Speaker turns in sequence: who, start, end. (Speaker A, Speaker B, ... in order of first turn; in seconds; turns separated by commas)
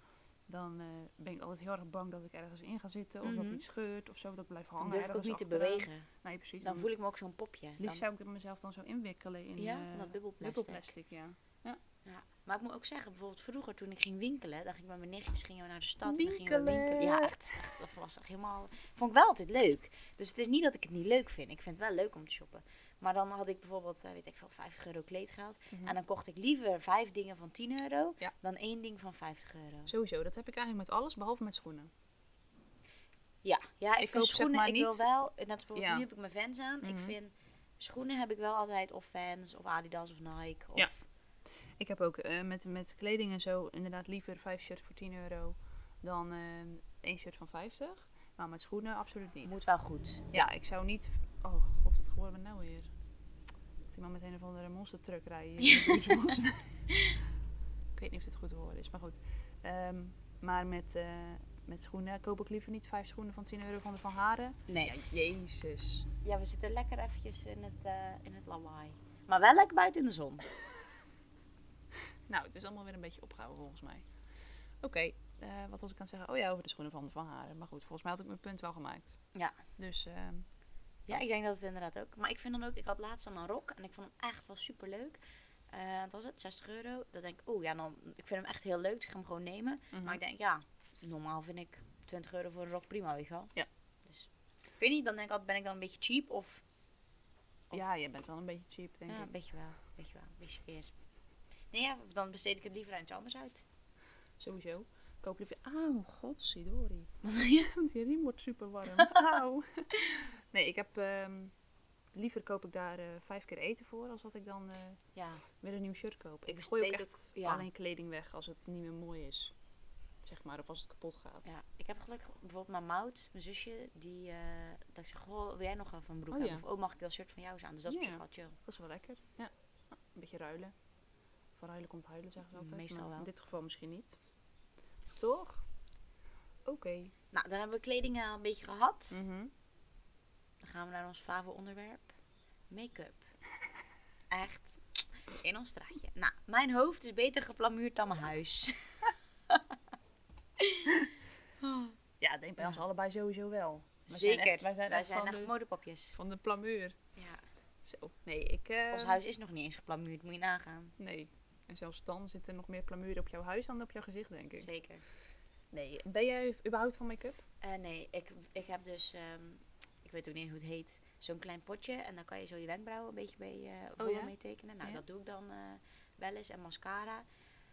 Speaker A: 0.5-6.9, Speaker B: 3.2-3.6, Speaker B: 4.8-6.1, Speaker B: 6.6-8.0, Speaker A: 7.8-11.8, Speaker B: 9.6-10.9, Speaker B: 12.0-29.9, Speaker A: 16.0-17.6, Speaker A: 29.9-31.9, Speaker B: 33.4-41.0, Speaker A: 34.0-35.0, Speaker A: 35.7-36.0, Speaker A: 36.8-37.1, Speaker A: 41.8-49.6, Speaker B: 49.4-50.4, Speaker A: 50.3-52.9, Speaker A: 53.9-56.8, Speaker B: 55.6-56.1, Speaker A: 57.9-66.1, Speaker B: 64.7-64.9, Speaker B: 66.2-70.4, Speaker A: 72.3-74.1, Speaker A: 74.8-79.2, Speaker A: 79.8-80.5, Speaker B: 81.1-85.2, Speaker B: 85.7-93.5, Speaker A: 89.9-90.2, Speaker B: 94.8-96.6, Speaker A: 97.7-99.3, Speaker B: 99.1-100.9, Speaker B: 101.7-103.6, Speaker A: 104.4-111.5, Speaker B: 107.2-107.5, Speaker A: 112.1-115.0, Speaker B: 115.1-115.4, Speaker A: 115.6-119.5, Speaker B: 116.5-117.7, Speaker A: 120.2-121.5, Speaker B: 121.4-128.6, Speaker A: 126.3-126.6, Speaker A: 127.9-130.7, Speaker A: 131.5-134.2, Speaker B: 132.5-133.3, Speaker A: 135.2-135.6, Speaker A: 136.6-137.1, Speaker B: 137.3-139.2, Speaker A: 139.1-139.5, Speaker B: 140.6-142.1, Speaker B: 142.7-143.3, Speaker B: 144.3-149.7, Speaker B: 150.6-150.9, Speaker B: 151.6-151.9, Speaker A: 152.2-155.5, Speaker B: 154.1-156.2, Speaker A: 156.1-157.0, Speaker B: 157.2-157.4, Speaker A: 157.8-159.2, Speaker B: 158.9-160.9, Speaker A: 161.0-164.7, Speaker B: 164.6-165.0, Speaker A: 165.7-167.4, Speaker B: 167.6-177.2, Speaker A: 174.0-175.0